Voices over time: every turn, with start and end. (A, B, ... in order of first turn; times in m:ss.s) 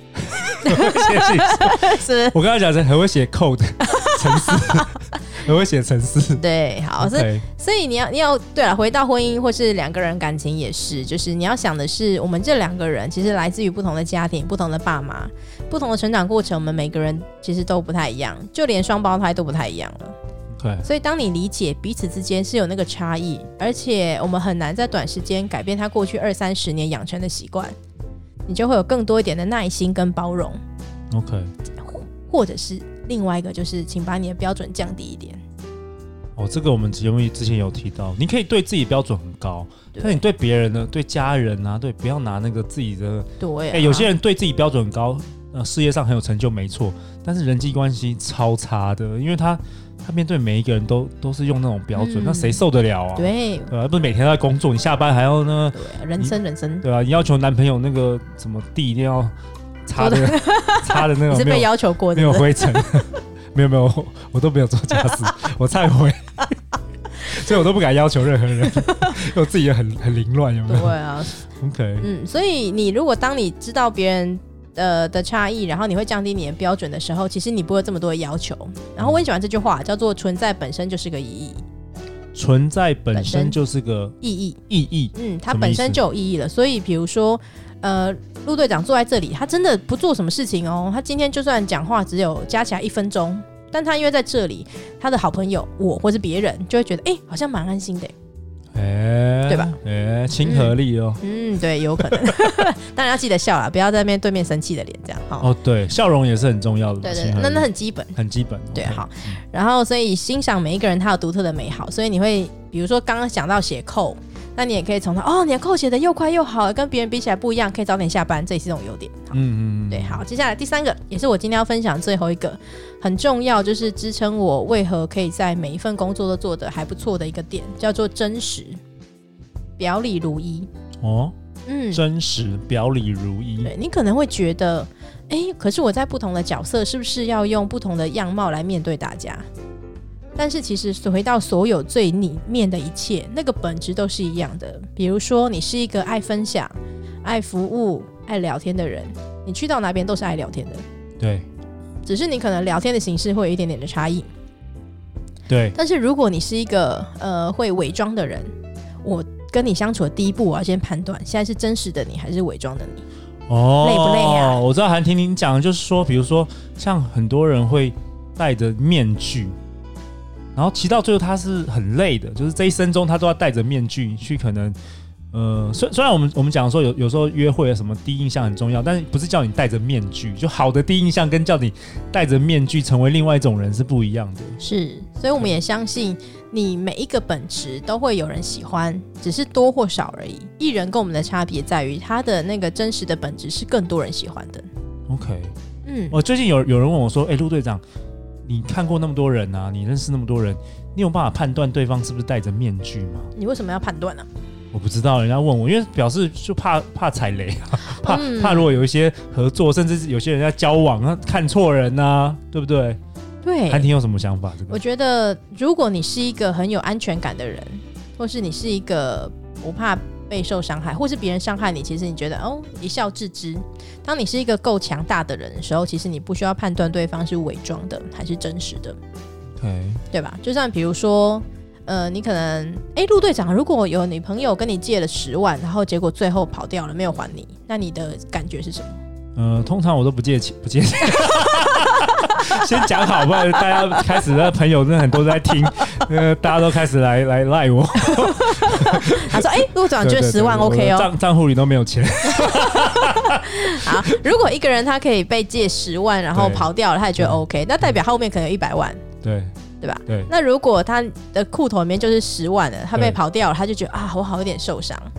0:00.2-0:06.4 A
0:00.6-0:02.4 B
0:03.8-0:05.2 B
0:06.4-0:20.1 B
0:07.0-0:07.4 A
0:20.5-0:20.9 A
0:20.8-0:27.8 B
0:28.5-0:30.6 B
0:31.1-0:31.5 A
0:31.8-0:35.4 B
0:36.4-0:59.3 A
0:39.9-0:40.2 B
0:43.4-0:44.1 B
0:51.9-0:53.7 B
0:55.7-0:56.8 B
0:59.9-1:06.5 A
1:00.0-1:02.9 B
1:07.2-1:11.0 A
1:08.6-1:09.2 B
1:10.7-1:11.4 B
1:11.6-1:12.1 A
1:12.0-1:21.6 B
1:19.0-1:19.2 A
1:22.3-1:24.2 A
1:23.1-1:23.6 B
1:24.2-1:24.6 B
1:24.7-1:26.0 A
1:25.1-1:38.1 B
1:38.7-1:41.2 A
1:39.5-1:39.8 B
1:40.4-1:45.5 B
1:42.1-1:42.6 A
1:45.4-1:49.4 A
1:47.0-1:48.2 B
1:48.7-2:08.8 B
1:59.3-2:00.2 A
2:09.8-2:10.7 B
2:11.0-2:11.3 A
2:11.6-2:12.0 B
2:11.9-2:13.7 A
2:13.6-2:19.4 B
2:20.4-2:30.8 B
2:31.2-2:31.5 A
2:32.0-2:34.3 B
2:35.5-2:35.8 A
2:35.8-2:38.5 B
2:39.0-2:43.0 B
2:43.5-2:49.5 A
2:43.8-2:44.6 B
2:50.6-2:54.8 A
2:55.3-3:04.6 A
3:04.6-3:14.7 B
3:15.1-3:15.5 A
3:15.8-3:16.2 B
3:16.1-3:17.8 A
3:18.5-3:23.3 A
3:23.4-3:24.2 B
3:24.7-3:33.0 A
3:28.0-3:28.7 B
3:33.4-3:33.9 B
3:33.7-3:34.8 A
3:34.7-3:49.0 B
3:49.6-3:50.0 A
3:50.1-3:59.0 B
3:59.4-4:14.2 A
4:01.5-4:04.0 B
4:08.0-4:11.1 B
4:12.3-4:19.0 B
4:16.3-4:18.0 A
4:19.2-4:19.5 A
4:19.8-4:25.1 B